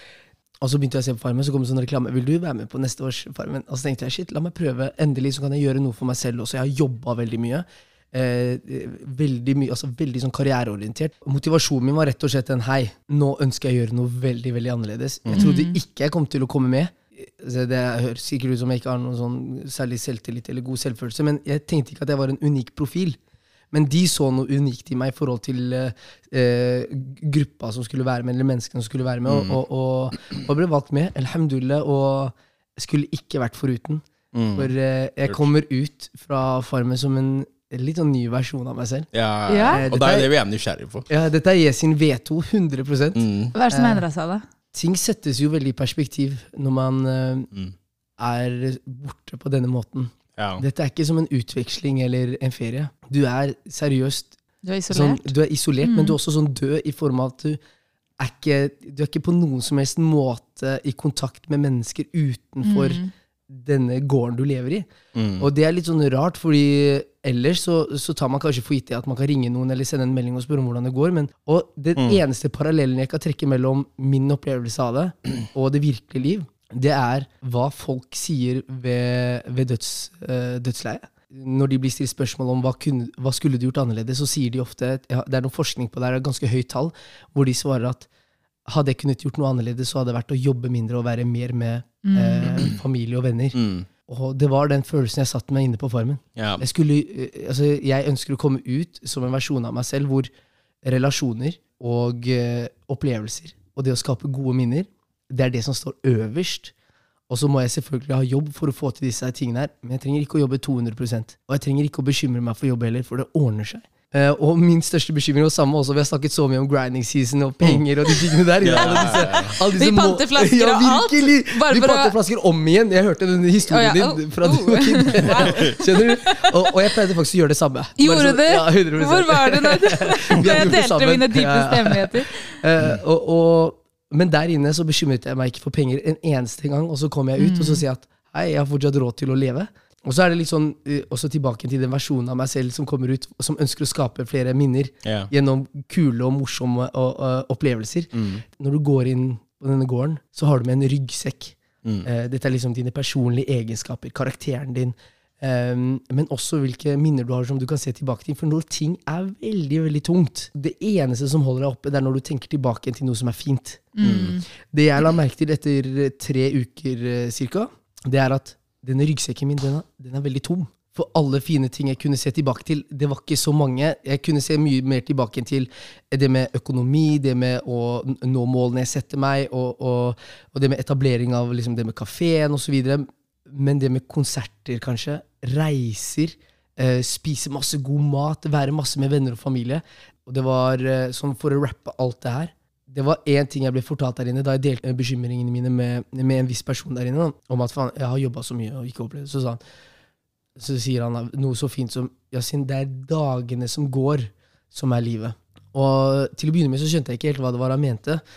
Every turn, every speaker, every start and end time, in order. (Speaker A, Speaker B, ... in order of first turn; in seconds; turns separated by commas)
Speaker A: 0.6-23.2, Speaker B: 15.4-15.8, Speaker A: 23.7-34.0, Speaker C: 29.3-29.6, Speaker C: 34.3-34.7, Speaker A: 34.5-39.1, Speaker C: 39.1-41.1, Speaker B: 39.5-39.8, Speaker A: 39.7-40.3, Speaker A: 41.1-44.0, Speaker C: 43.2-43.5, Speaker B: 43.5-44.4, Speaker A: 44.7-47.5, Speaker A: 48.2-54.4, Speaker C: 50.4-50.6, Speaker B: 54.6-56.2, Speaker A: 54.9-57.6, Speaker A: 58.2-88.1, Speaker B: 62.6-63.1, Speaker C: 65.2-65.5, Speaker C: 72.0-72.2, Speaker A: 88.7-100.3, Speaker B: 92.0-92.8, Speaker C: 93.6-93.9, Speaker C: 96.4-96.6, Speaker A: 100.8-106.7, Speaker A: 107.3-163.9, Speaker C: 118.6-119.6, Speaker B: 118.8-122.2, Speaker B: 123.7-126.5, Speaker C: 125.4-125.8, Speaker B: 128.0-132.6, Speaker B: 137.4-137.8, Speaker C: 145.1-145.3, Speaker C: 148.2-148.4, Speaker B: 164.0-164.5, Speaker C: 164.0-164.4, Speaker A: 164.6-199.6, Speaker A: 200.6-208.2